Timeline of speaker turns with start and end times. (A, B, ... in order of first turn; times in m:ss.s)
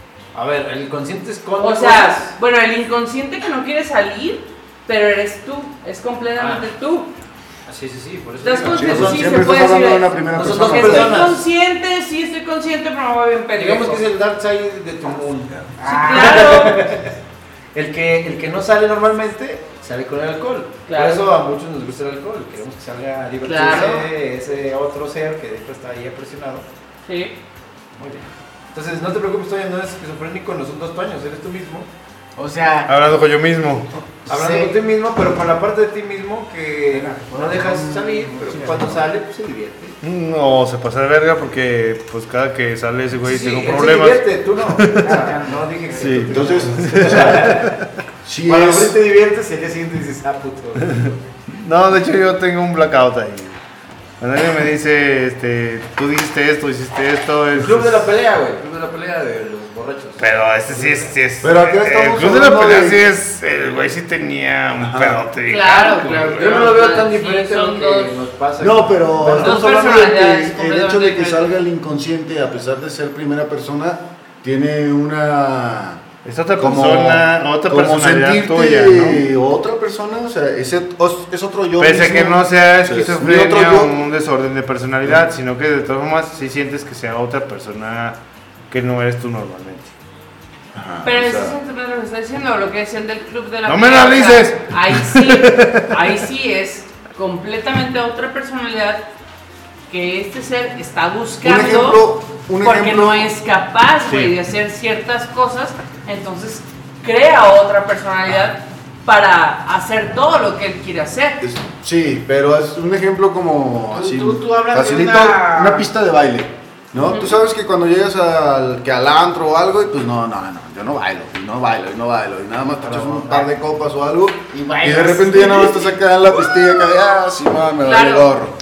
0:00.3-0:02.3 A
0:01.6-0:07.1 B
0:06.3-0:06.6 A
0:07.7-0:09.4 A
0:08.4-0:14.0 B
0:08.7-0:11.4 C
0:10.3-0:11.4 A
0:13.5-0:17.1 A
0:15.8-0:16.7 D
0:15.8-0:16.9 B
0:17.7-0:26.6 A
0:20.9-0:21.2 B
0:23.4-0:24.0 B
0:27.0-0:27.4 B
0:28.0-0:31.9 A
0:32.4-0:32.9 D
0:32.9-0:33.9 E
0:34.3-0:34.8 D
0:34.3-0:40.0 A
0:36.9-0:39.1 D
0:40.0-0:45.3 E
0:43.2-0:47.8 A
0:45.0-0:46.7 D
0:46.0-0:47.8 E
0:46.3-0:47.6 C
0:48.2-0:49.0 C
0:48.4-0:51.3 A
0:51.5-0:53.6 E
0:54.2-0:58.0 E
0:57.5-1:01.1 A
1:00.2-1:06.7 E
1:01.4-1:03.0 C
1:04.8-1:05.2 C
1:05.5-1:08.1 B
1:06.3-1:09.6 A
1:08.6-1:16.0 C
1:09.4-1:11.5 B
1:16.2-1:19.2 E
1:16.6-1:23.9 C
1:21.8-1:29.9 E
1:30.7-1:31.6 C
1:31.0-1:39.0 B
1:33.6-1:36.2 E
1:39.9-1:42.0 B
1:41.4-1:43.3 C
1:42.6-1:51.4 B
1:44.0-1:44.3 E
1:51.4-2:08.5 C
1:53.9-1:55.9 D
1:57.0-1:57.4 B
2:02.8-2:03.4 E
2:04.5-2:05.9 D
2:07.8-2:08.3 B